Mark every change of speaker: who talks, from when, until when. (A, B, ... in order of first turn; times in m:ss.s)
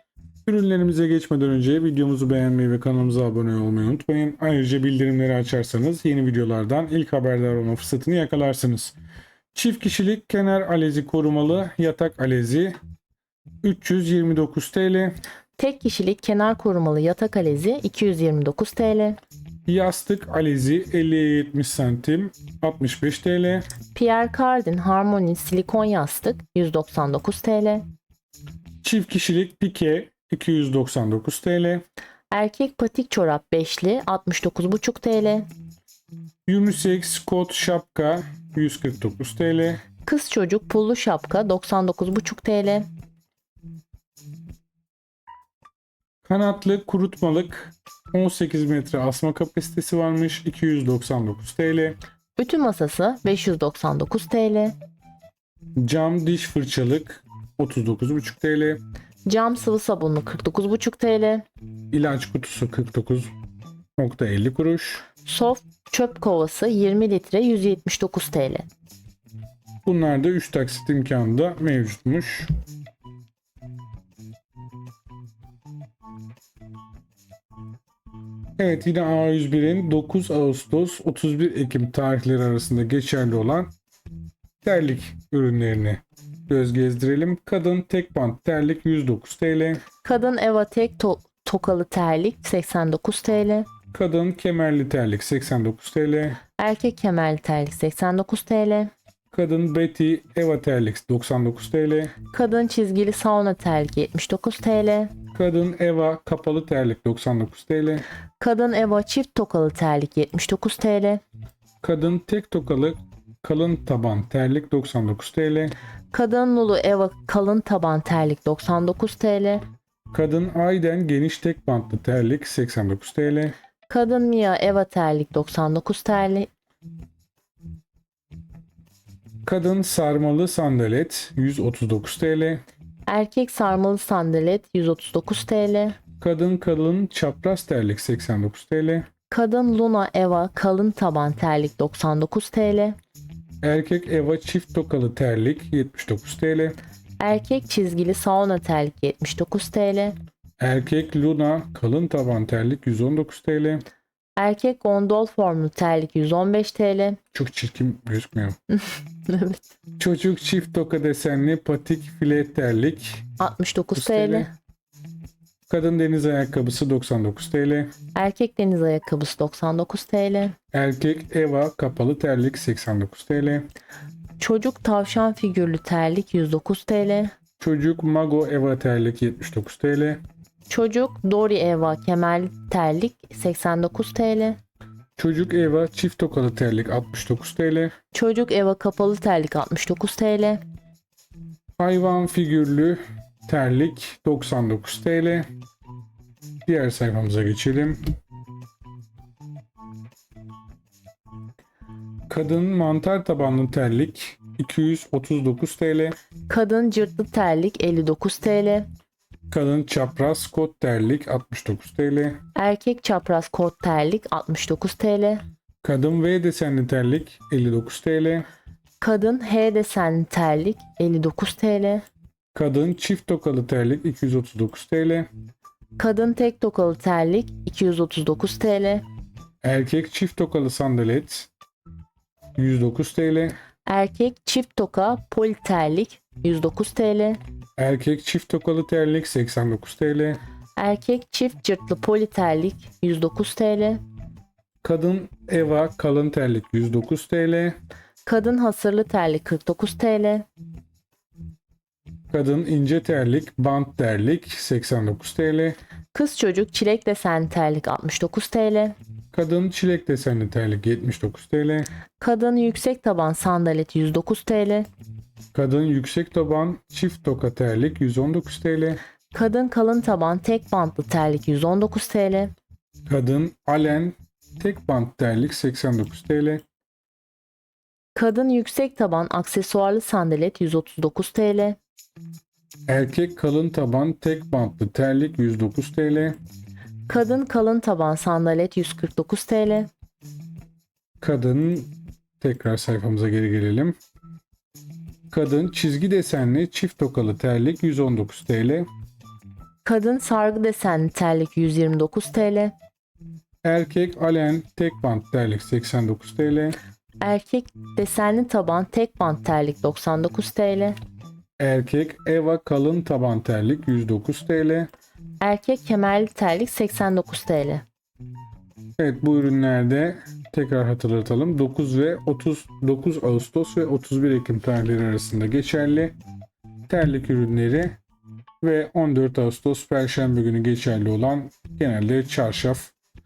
0:00.5-0:09.0 A
0:09.5-0:12.8 A
0:13.6-0:15.2 A
0:15.6-0:19.2 B
0:19.7-0:23.7 A
0:23.9-0:27.9 B
0:28.8-0:31.8 A
0:32.3-0:35.5 B
0:36.5-0:39.8 A
0:40.1-0:42.9 B
0:46.2-0:52.0 A
0:52.4-0:54.8 B
0:55.8-0:58.8 A
0:59.3-1:01.4 B
1:01.9-1:03.3 A
1:04.0-1:05.0 A
1:05.2-1:08.7 B
1:09.9-1:12.5 A
1:18.6-1:23.7 A
1:24.6-1:29.8 A
1:30.0-1:33.7 B
1:33.9-1:36.4 A
1:36.6-1:38.9 B
1:39.3-1:42.2 A
1:42.3-1:45.1 B
1:45.3-1:48.0 A
1:48.4-1:51.2 B
1:51.8-1:55.8 A
1:56.1-1:59.6 B
2:00.1-2:03.6 A
2:03.9-2:06.5 B
2:09.4-2:12.6 A
2:13.1-2:16.0 B
2:16.2-2:19.1 A
2:19.3-2:23.0 B
2:23.6-2:26.8 A
2:27.2-2:30.2 B
2:30.6-2:33.8 A
2:34.4-2:37.2 B
2:37.3-2:38.6 A
2:38.7-2:39.6 B
2:40.0-2:43.3 A
2:43.4-2:44.5 B
2:44.0-2:44.5 A
2:45.7-2:47.9 A
2:48.2-2:50.6 B
2:50.7-2:53.7 A
2:54.4-2:57.3 B
2:57.6-3:00.2 A
3:00.7-3:04.6 B
3:05.2-3:07.9 A
3:08.1-3:10.6 B
3:11.8-3:15.5 A
3:16.7-3:18.0 A
3:22.3-3:26.2 A
3:26.5-3:28.9 B
3:29.5-3:32.4 A
3:32.6-3:35.4 B
3:35.8-3:38.5 A
3:39.0-3:42.0 B
3:42.6-3:45.3 A
3:46.0-3:49.0 B
3:49.6-3:51.5 A
3:52.6-3:53.6 A
3:53.9-3:57.4 B
3:57.8-4:00.4 A
4:00.8-4:04.0 B
4:04.8-4:07.8 A
4:08.3-4:10.5 B
4:12.3-4:15.8 A
4:16.1-4:19.0 B
4:19.3-4:21.9 A
4:22.2-4:24.9 B
4:25.5-4:29.0 A
4:29.3-4:32.5 B
4:33.1-4:36.6 A
4:38.2-4:41.8 B
4:42.9-4:46.4 A
4:47.1-4:49.9 B
4:51.2-4:54.0 A
4:55.3-4:58.9 A
4:59.8-5:02.7 B
5:03.6-5:06.8 A
5:07.2-5:11.0 B
5:11.6-5:14.9 A
5:15.4-5:17.8 B
5:19.0-5:26.2 A
5:26.9-5:28.0 A
5:28.6-5:32.9 A